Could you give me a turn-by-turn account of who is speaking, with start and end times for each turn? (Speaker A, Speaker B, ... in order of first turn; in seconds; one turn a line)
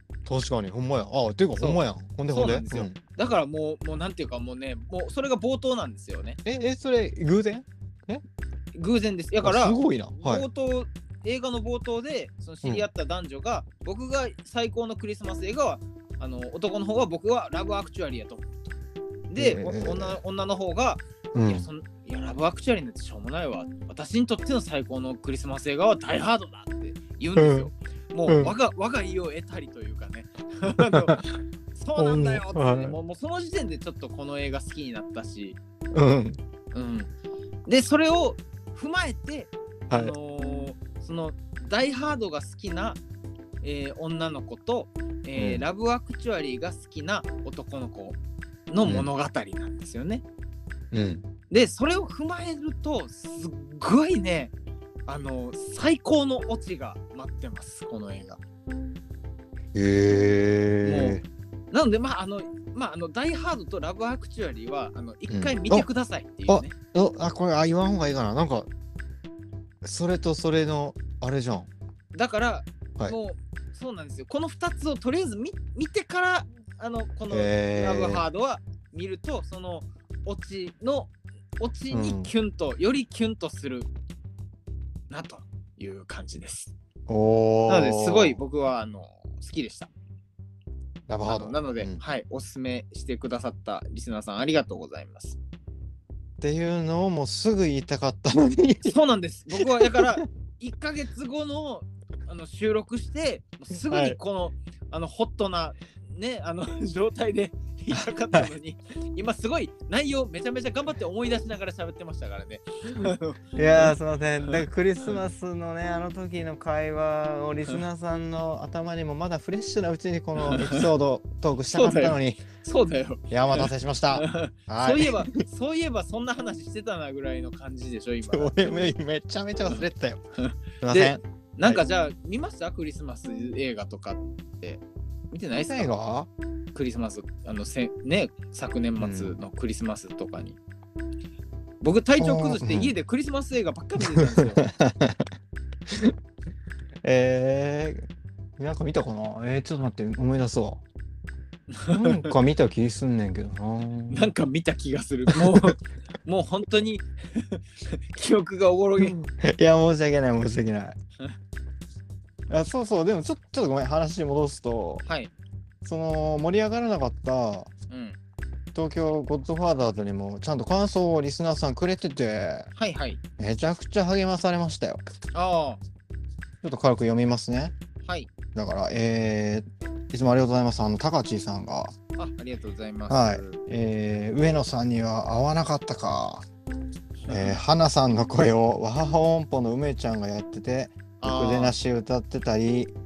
Speaker A: 0.2-3.0
Speaker B: 1.6-6.4
Speaker A: 6.4-8.2
Speaker B: 8.7-18.7
Speaker A: 9.4-10.4
Speaker B: 19.3-31.2
Speaker A: 19.4-20.2
Speaker A: 21.3-21.6
Speaker A: 27.4-27.7
Speaker A: 28.3-28.5
Speaker A: 30.8-31.3
Speaker B: 31.7-35.6
Speaker A: 31.9-33.0
Speaker A: 35.9-36.4
Speaker B: 36.7-37.1
Speaker B: 37.6-43.0
Speaker A: 39.9-40.1
Speaker B: 43.6-48.2
Speaker A: 45.3-45.6
Speaker B: 48.7-50.2
Speaker A: 48.8-49.1
Speaker A: 50.9-51.2
Speaker B: 51.5-54.5
Speaker B: 55.1-58.4
Speaker A: 59.7-61.2
Speaker B: 60.8-61.2
Speaker B: 61.7-66.7
Speaker A: 65.3-65.9
Speaker A: 66.5-68.7
Speaker A: 69.8-71.7
Speaker B: 72.1-83.9
Speaker A: 77.3-78.2
Speaker A: 81.9-82.3
Speaker B: 85.1-86.7
Speaker A: 87.1-88.4
Speaker B: 87.7-89.9
Speaker A: 91.1-92.0
Speaker B: 91.2-95.4
Speaker A: 96.4-99.0
Speaker B: 98.8-114.6
Speaker A: 99.5-100.2
Speaker A: 103.9-104.2
Speaker A: 108.0-108.5
Speaker A: 113.5-122.4
Speaker B: 120.4-120.8
Speaker B: 121.7-128.9
Speaker A: 123.3-125.3
Speaker A: 128.2-130.2
Speaker B: 130.4-135.9
Speaker A: 130.8-131.8
Speaker A: 135.6-136.3
Speaker B: 136.7-140.6
Speaker A: 139.0-139.3
Speaker B: 141.8-144.6
Speaker A: 142.2-142.9
Speaker A: 144.2-145.3
Speaker A: 145.9-146.1
Speaker A: 147.0-148.1
Speaker A: 148.6-150.8
Speaker B: 151.7-152.3
Speaker A: 151.9-154.3
Speaker B: 154.1-159.1
Speaker A: 155.3-155.7
Speaker A: 159.0-160.9
Speaker A: 162.5-165.0
Speaker B: 165.0-165.3
Speaker A: 165.8-167.7
Speaker B: 167.9-168.2
Speaker A: 168.7-172.7
Speaker B: 172.8-173.2
Speaker A: 173.4-175.0
Speaker B: 175.3-175.8
Speaker A: 176.6-177.7
Speaker B: 178.0-178.3
Speaker A: 178.5-181.9
Speaker B: 182.2-183.6
Speaker A: 183.1-186.4
Speaker B: 187.2-187.6
Speaker A: 187.3-192.9
Speaker B: 191.2-191.8